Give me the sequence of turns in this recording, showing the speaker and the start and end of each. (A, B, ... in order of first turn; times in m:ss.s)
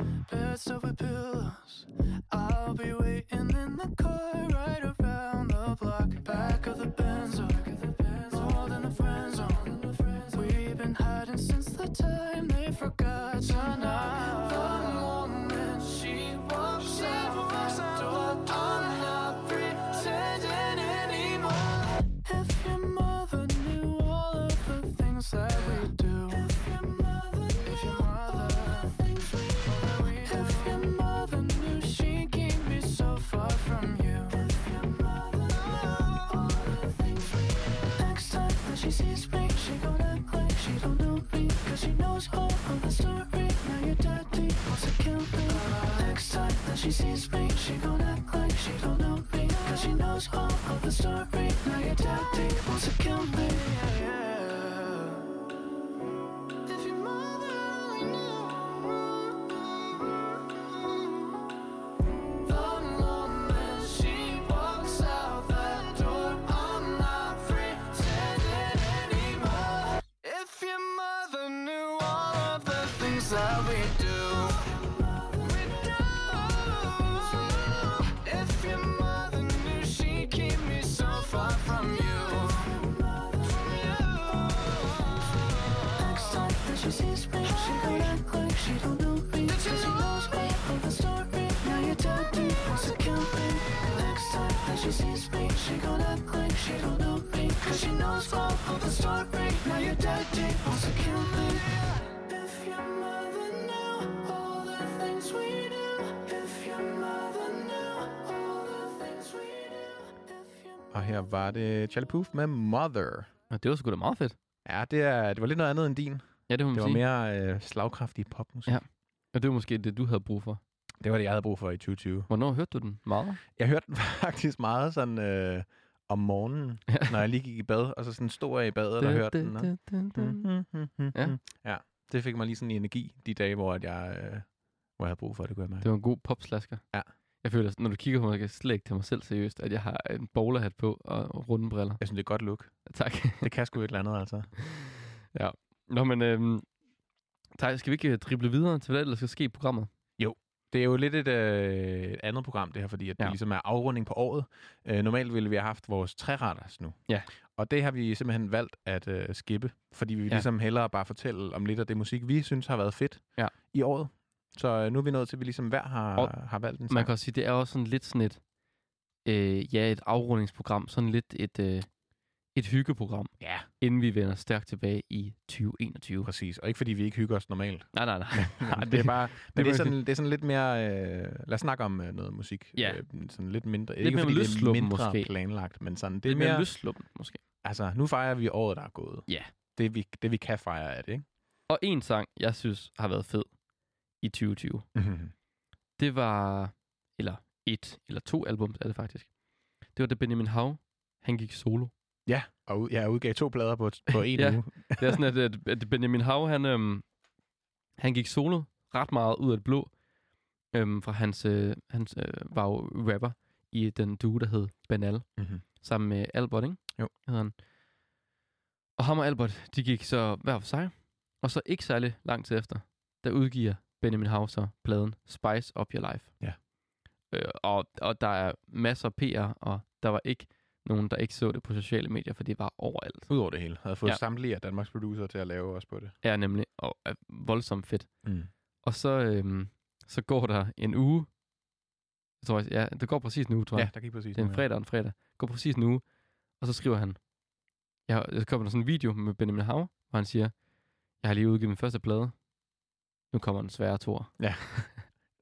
0:00.2-0:55.2 A
0:56.6-1:00.1 A
1:02.4-1:50.9 A
1:50.9-1:53.3 B
1:53.5-1:54.4 C
1:54.6-1:58.8 B
1:56.5-1:57.0 C
1:58.7-2:00.6 C
2:01.0-2:02.3 B
2:02.3-2:03.4 C
2:03.5-2:15.9 B
2:09.0-2:10.5 C
2:15.8-2:16.8 C
2:17.4-2:22.0 C
2:22.0-2:24.5 B
2:22.8-2:23.5 C
2:24.7-2:26.7 C
2:27.6-2:29.9 C
2:30.2-2:47.1 B
2:46.9-2:48.4 C
2:49.2-2:51.9 C
2:52.5-2:56.3 C
2:53.4-2:53.7 B
2:56.2-3:06.7 B
2:57.9-3:00.0 C
3:02.8-3:03.0 C
3:04.0-3:05.3 C
3:06.2-3:07.4 C
3:07.6-3:11.2 B
3:11.7-3:13.5 C
3:14.2-3:14.9 C
3:14.9-3:15.3 B
3:16.0-3:19.3 C
3:19.9-3:21.9 C
3:22.2-3:25.2 B
3:24.3-3:27.0 C
3:28.0-3:29.9 C
3:30.7-3:37.6 C
3:35.4-3:35.6 B
3:39.0-3:46.3 C
3:47.3-3:53.3 C
3:53.3-3:56.2 B
3:56.2-3:58.2 C
3:58.2-3:58.5 B
3:58.8-4:01.3 C
4:02.4-4:06.0 C
4:03.7-4:04.6 B
4:06.6-4:07.2 C
4:08.0-4:10.6 C
4:11.2-4:12.4 C
4:13.3-4:14.9 C
4:14.4-4:15.0 B